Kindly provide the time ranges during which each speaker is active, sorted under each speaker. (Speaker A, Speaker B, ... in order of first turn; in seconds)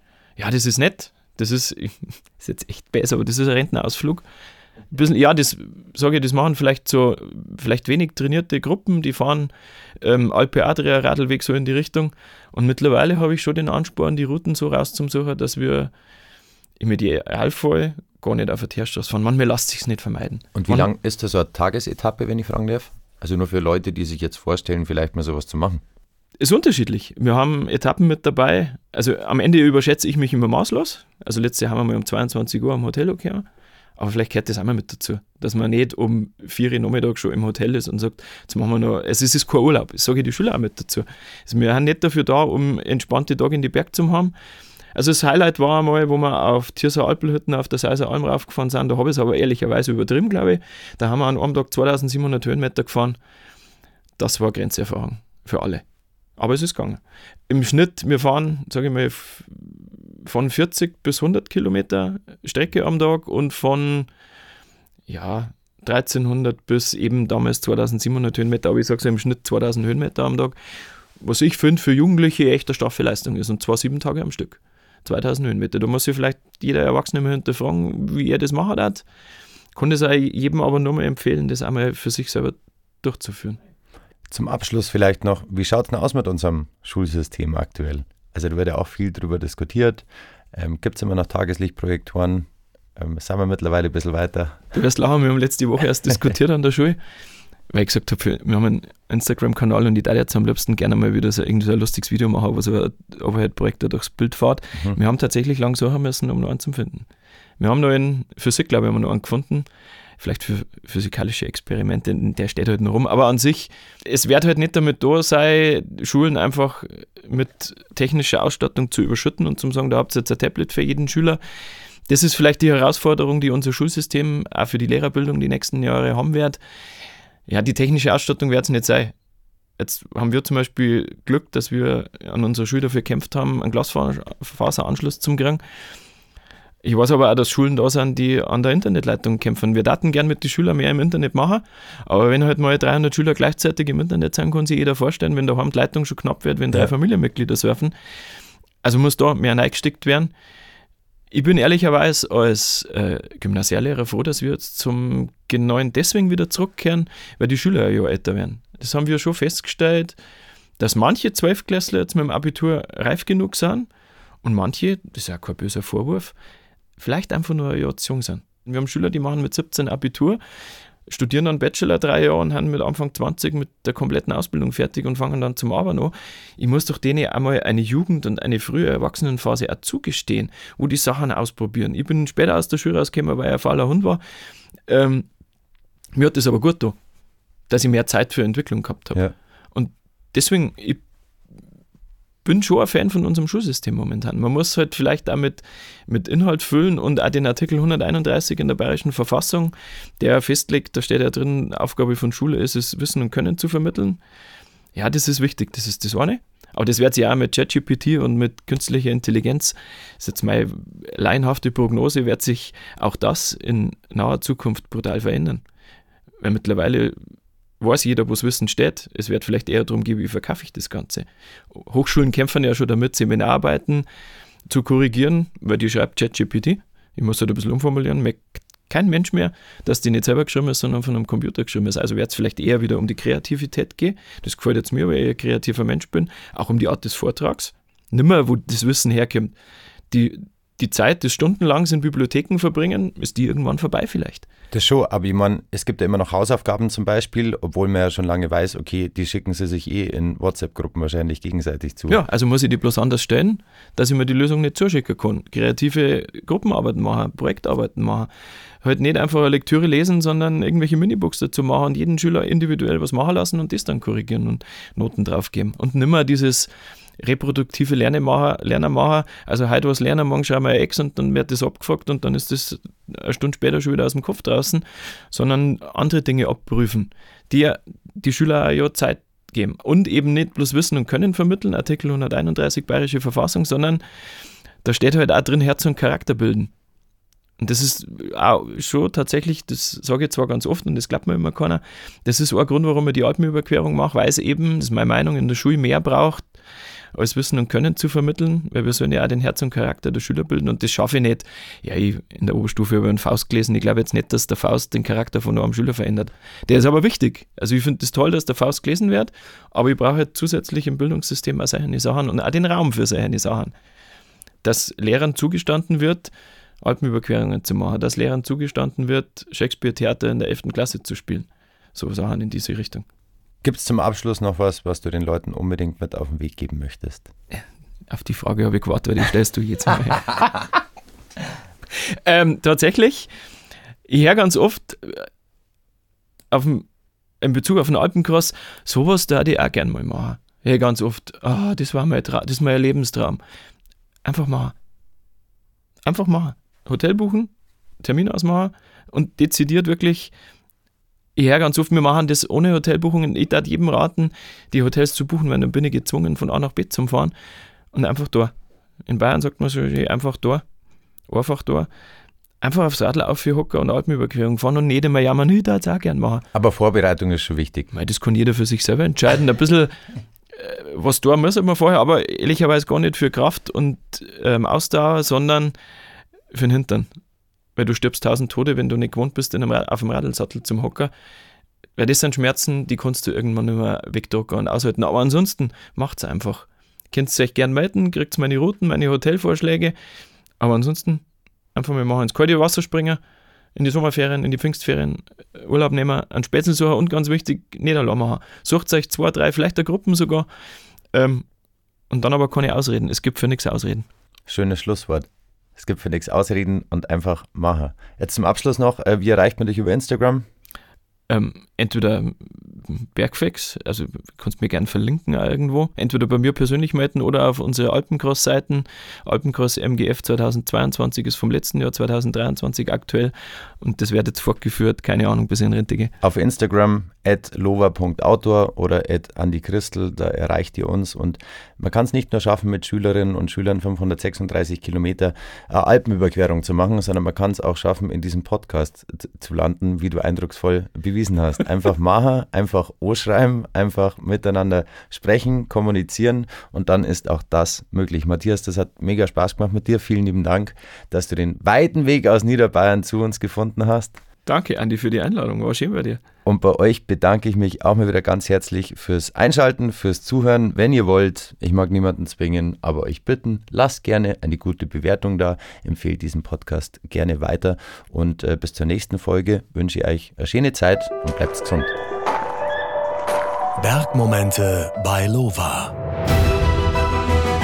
Speaker A: 0.4-4.2, 4.9-9.5, 10.0-15.9, 16.8-20.9, 26.4-33.4, 34.0-44.3, 44.9-53.2, 54.2-55.8, 56.4-64.1, 65.1-70.6, 71.2-79.0, 79.7-83.6, 94.7-97.0, 97.7-107.1, 107.6-109.7, 110.2-121.4, 122.1-126.6, 127.5-129.1, 129.8-135.6, 136.8-147.9, 148.8-150.3, 151.3-160.1, 160.8-163.9, 164.4-166.3, 167.0-170.4, 171.1-184.2, 184.9-185.3, 186.1-186.9, 187.7-189.2, 189.7-191.0, 192.4-204.2, 204.9-215.6, 216.4-217.2, 217.8-224.1, 224.7-239.5, 240.1-244.4, 252.1-258.3, 258.8-266.7, 267.2-284.0, 284.8-286.7, 287.6-296.5, 297.1-313.7, 314.6-323.1, 327.5-330.4, 331.9-333.3, 334.1-335.3, 336.5-336.9, 337.4-343.4, 344.2-344.7, 346.1-350.3, 351.4-357.3, 357.9-358.5, 359.1-360.6, 361.3-361.9, 362.6-366.4, 367.9-369.9, 370.5-375.7, 376.5-377.1, 377.8-381.1, 382.0-389.9, 390.6-391.2, 391.7-393.2, 393.7-400.5, 401.1-401.4, 402.1-404.1, 411.3-426.1, 454.4-456.2
Speaker B: 20.6-25.8, 84.3-94.6, 244.7-252.2, 323.6-327.3, 366.5-367.9, 404.5-410.4, 426.2-454.1, 456.4-471.9
Speaker C: 473.8-475.9